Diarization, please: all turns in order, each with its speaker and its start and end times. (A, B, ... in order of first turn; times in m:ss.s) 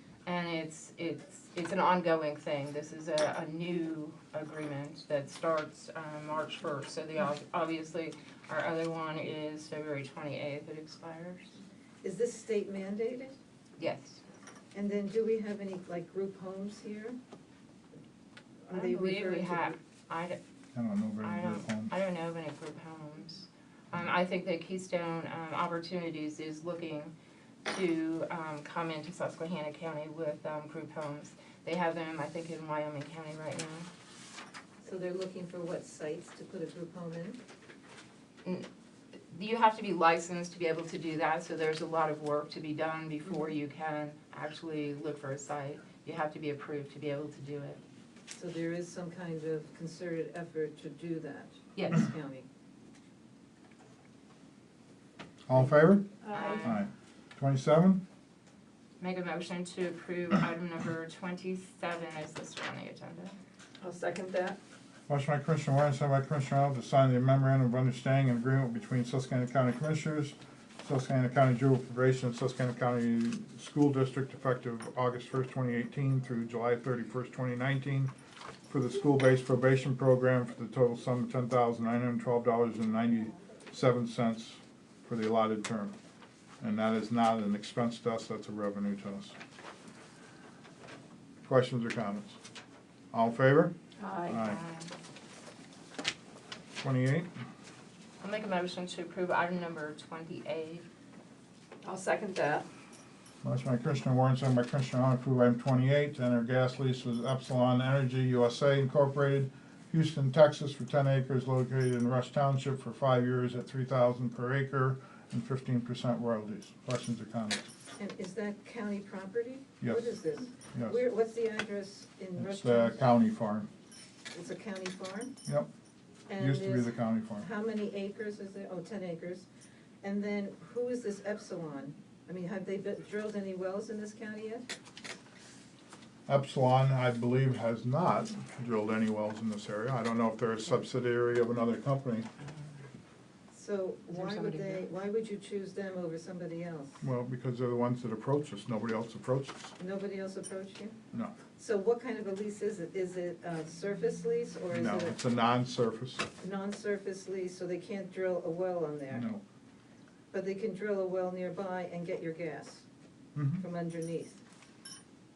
0:00.2-0:11.5 A
0:12.0-0:13.4 B
0:13.8-0:14.2 A
0:14.7-0:17.2 B
0:18.7-0:19.8 B
0:18.7-0:20.4 A
0:20.7-0:21.9 C
0:21.2-0:27.1 A
0:27.6-0:33.9 A
0:34.8-0:37.4 B
0:39.3-0:47.8 A
0:48.3-0:52.5 B
0:51.8-0:52.1 A
0:55.5-0:56.1 C
0:56.2-0:56.8 D
0:56.3-0:56.8 A
0:56.6-0:58.0 C
0:59.0-1:03.3 A
1:03.8-1:04.6 D
1:05.1-1:18.1 C
1:18.7-1:25.9 C
1:26.6-1:29.4 C
1:31.4-1:32.4 C
1:33.1-1:33.7 C
1:34.0-1:34.4 D
1:34.3-1:34.6 C
1:34.4-1:34.9 A
1:36.8-1:37.3 C
1:38.2-1:40.8 A
1:41.8-1:42.6 D
1:43.4-1:57.7 C
1:58.0-2:03.1 B
1:59.8-2:00.2 C
2:00.7-2:01.0 C
2:02.4-2:03.7 C
2:04.3-2:05.3 B
2:06.3-2:09.5 B
2:06.4-2:07.4 C
2:10.0-2:14.6 B
2:16.3-2:22.3 C
2:23.5-2:27.0 B
2:24.1-2:24.8 A
2:27.0-2:29.7 C
2:29.8-2:31.0 B
2:31.5-2:35.2 B
2:34.7-2:36.3 C
2:36.4-2:39.2 B
2:39.1-2:39.4 C
2:40.3-2:42.8 B
2:43.4-2:43.6 C
2:43.6-2:44.4 B